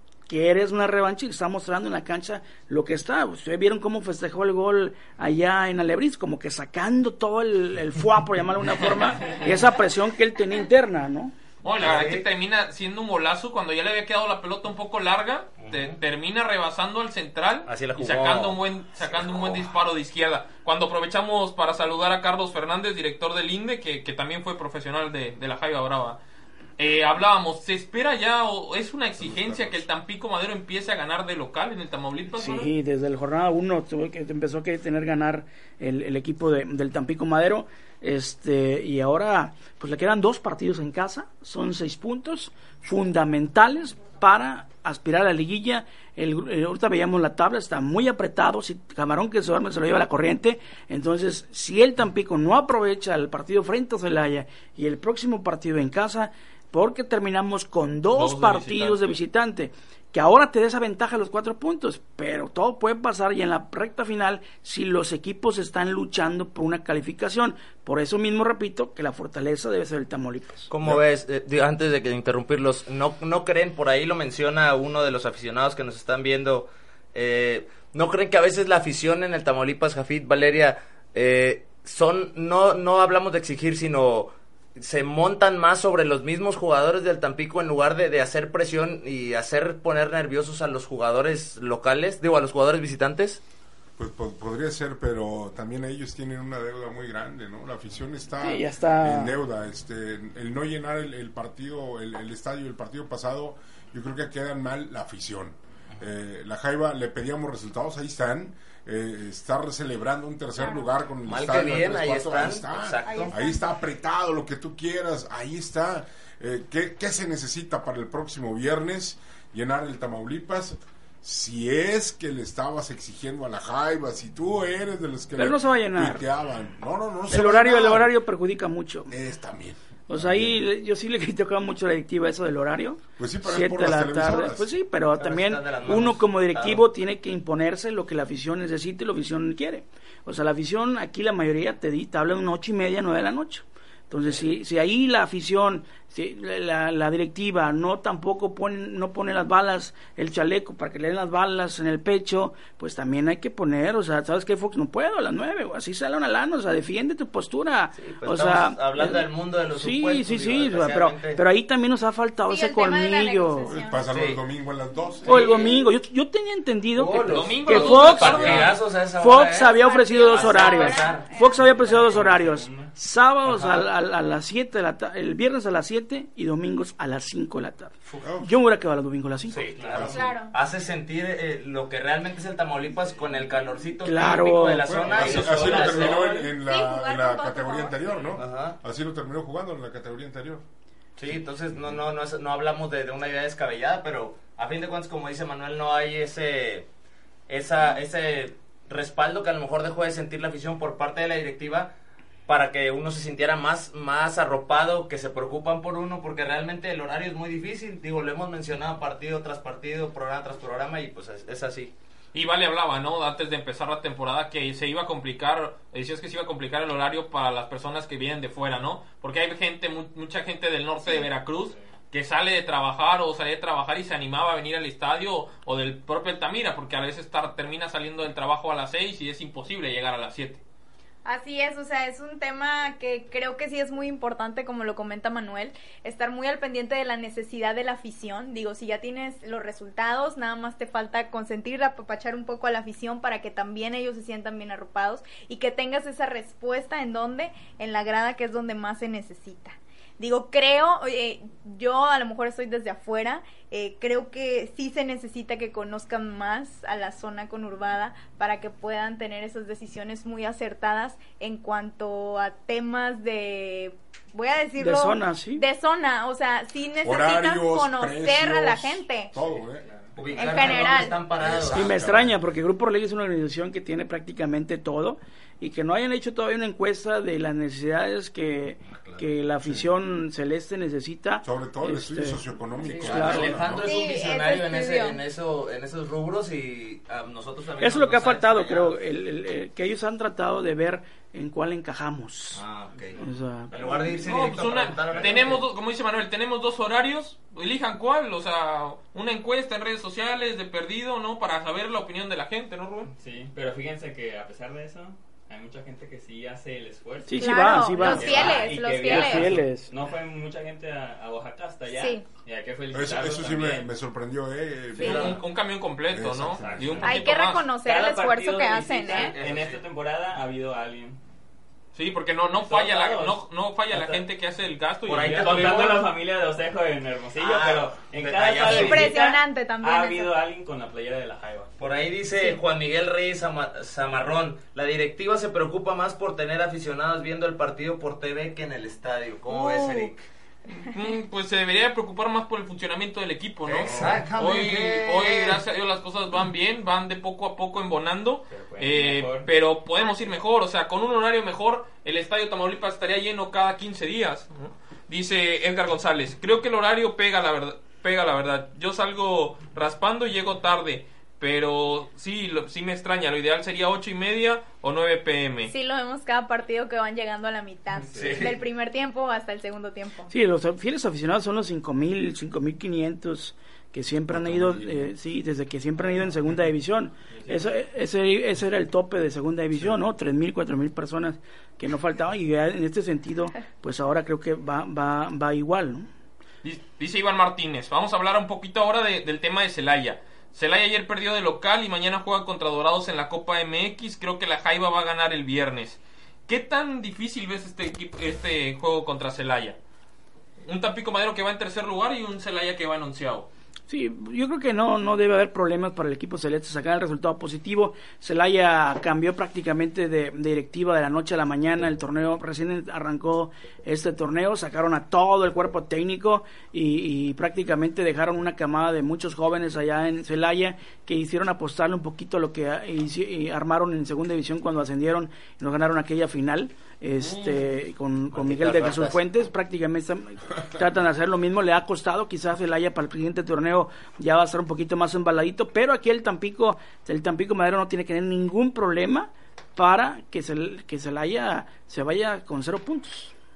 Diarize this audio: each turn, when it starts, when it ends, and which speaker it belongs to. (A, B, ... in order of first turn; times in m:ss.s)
0:00.3-0:11.3 A
0:11.6-0:26.2 B
0:11.8-0:12.2 C
0:15.6-0:16.0 C
0:17.6-0:19.6 C
0:26.8-0:32.7 B
0:29.2-0:29.8 D
0:32.3-1:10.7 A
0:58.1-0:59.1 B
1:10.7-1:33.4 C
1:34.0-2:08.1 D
1:38.4-1:39.3 A
1:51.2-1:53.3 C
1:53.0-1:53.6 E
2:05.4-2:06.2 A
2:07.3-2:09.1 A
2:09.1-2:10.6 D
2:10.1-2:43.7 A
2:13.2-2:14.7 D
2:15.2-2:16.8 C
2:38.0-2:41.4 C
2:42.5-2:44.1 E
2:43.6-2:45.6 D
2:44.1-2:44.4 C
2:45.2-2:48.4 A
2:45.3-2:45.7 C
2:46.9-2:49.7 C
2:47.3-2:48.8 B
2:48.1-2:48.7 D
2:49.2-2:59.6 A
2:49.5-2:51.6 E
2:50.3-2:51.3 C
2:51.4-2:52.9 F
2:53.4-2:53.9 C
2:58.2-2:58.5 D
2:59.5-3:06.2 C
2:59.6-3:00.1 F
2:59.8-3:00.3 D
3:00.1-3:00.5 E
3:04.0-3:04.9 A
3:04.8-3:10.6 D
3:04.9-3:06.6 F
3:06.5-3:08.3 E
3:08.4-3:08.8 C
3:11.2-3:16.9 C
3:17.5-3:21.9 C
3:22.5-3:31.9 C
3:32.3-3:50.6 B
3:41.6-3:41.9 F
3:51.2-4:29.3 E
4:24.8-4:25.6 A
4:27.0-4:29.9 D
4:29.5-4:30.6 F
4:30.2-4:31.9 C
4:30.4-4:31.2 E
4:31.4-4:32.4 D
4:31.7-4:42.4 A
4:38.9-4:39.3 C
4:39.6-4:39.9 D
4:41.4-4:43.9 D
4:42.8-4:48.9 C
4:43.0-4:43.6 A
4:43.8-4:45.2 E
4:47.8-4:52.6 A
4:52.5-4:53.2 C
4:53.0-4:55.6 F
4:53.2-4:54.1 A
4:53.7-4:55.6 C
4:54.2-5:03.1 B
5:03.1-5:13.9 F
5:07.3-5:09.9 A
5:07.4-5:09.5 E
5:11.9-5:12.2 E
5:12.9-5:15.4 D
5:15.0-5:15.3 E
5:15.0-5:17.7 B
5:15.0-5:15.4 C
5:16.1-5:17.2 D
5:16.5-5:21.2 F
5:17.0-5:19.3 E
5:19.0-5:19.8 C
5:21.9-5:26.0 B
5:22.6-5:24.2 F
5:25.1-5:26.0 C
5:25.1-5:31.7 F
5:27.4-5:29.1 C
5:28.7-5:30.4 E
5:31.8-5:40.2 C
5:39.5-5:39.9 B
5:40.7-6:05.7 B
5:43.6-5:45.6 C
5:43.8-5:44.1 D
5:48.5-5:49.5 F
6:05.7-6:10.3 E
6:08.1-6:08.5 F
6:08.1-6:08.5 C
6:10.3-6:26.1 A
6:14.3-6:15.1 D
6:17.3-6:17.6 F
6:19.7-6:20.0 D
6:26.6-6:39.8 B
6:40.6-6:43.5 B
6:43.9-7:23.3 A
7:07.2-7:07.6 B
7:08.3-7:09.2 C